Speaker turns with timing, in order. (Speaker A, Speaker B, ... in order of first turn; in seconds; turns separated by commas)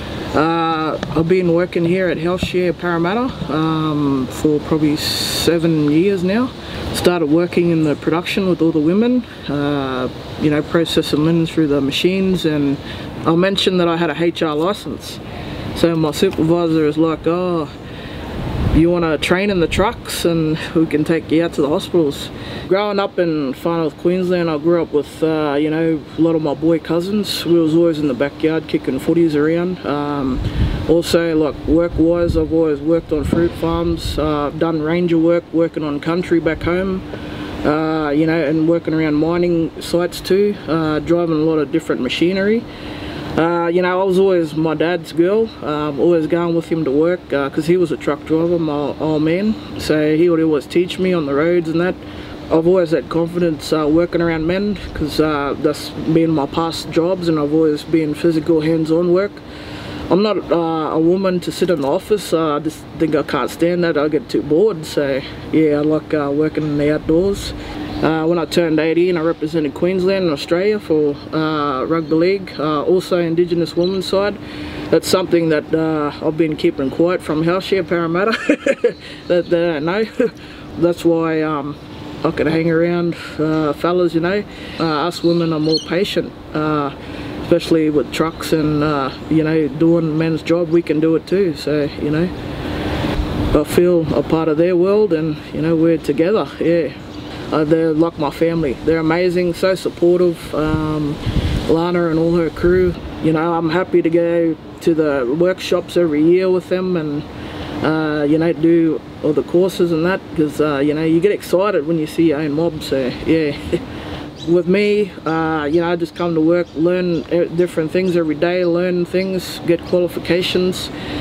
Speaker A: 0.3-17.7, Speaker A: 18.7-37.0, Speaker A: 37.6-42.7, Speaker A: 43.3-59.4, Speaker A: 60.1-92.3, Speaker A: 93.5-97.0, Speaker A: 97.5-107.3, Speaker A: 107.8-113.8, Speaker A: 114.4-120.9